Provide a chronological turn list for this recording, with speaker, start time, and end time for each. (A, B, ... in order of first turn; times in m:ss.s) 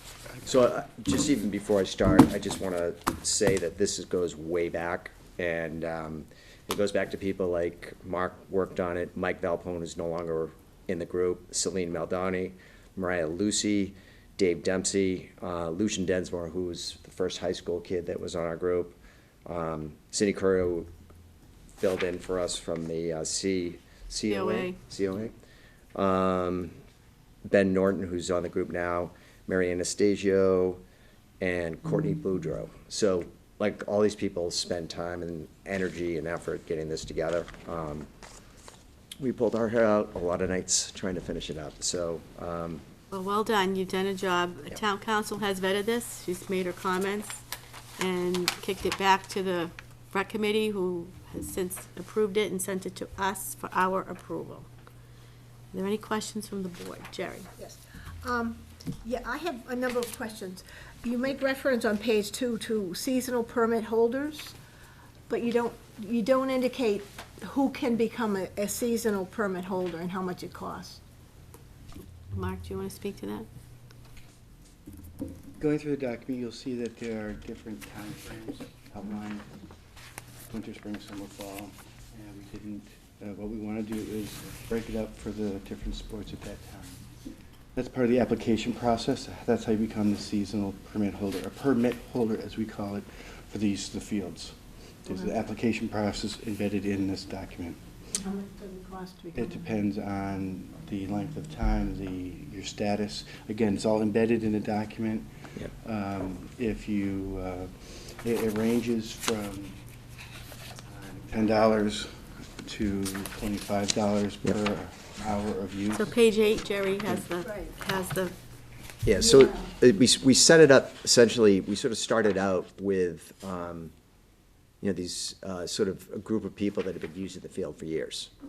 0:00.4-0:20.9 A
0:21.7-0:25.3 A
0:24.2-0:24.8 B
0:25.9-0:26.7 A
0:27.4-0:30.8 A
0:31.4-0:38.1 A
0:39.2-0:42.8 A
0:43.1-0:47.4 B
0:48.0-0:54.7 B
0:55.7-0:57.5 B
0:57.6-1:04.6 C
1:05.3-1:11.0 C
1:12.3-1:13.5 B
1:15.6-1:19.4 D
1:20.5-1:27.0 D
1:27.7-1:37.8 D
1:38.2-1:39.6 C
1:39.3-1:49.8 D
1:50.9-1:56.1 D
1:55.9-1:58.3 B
1:59.0-2:03.9 A
2:04.8-2:08.3 A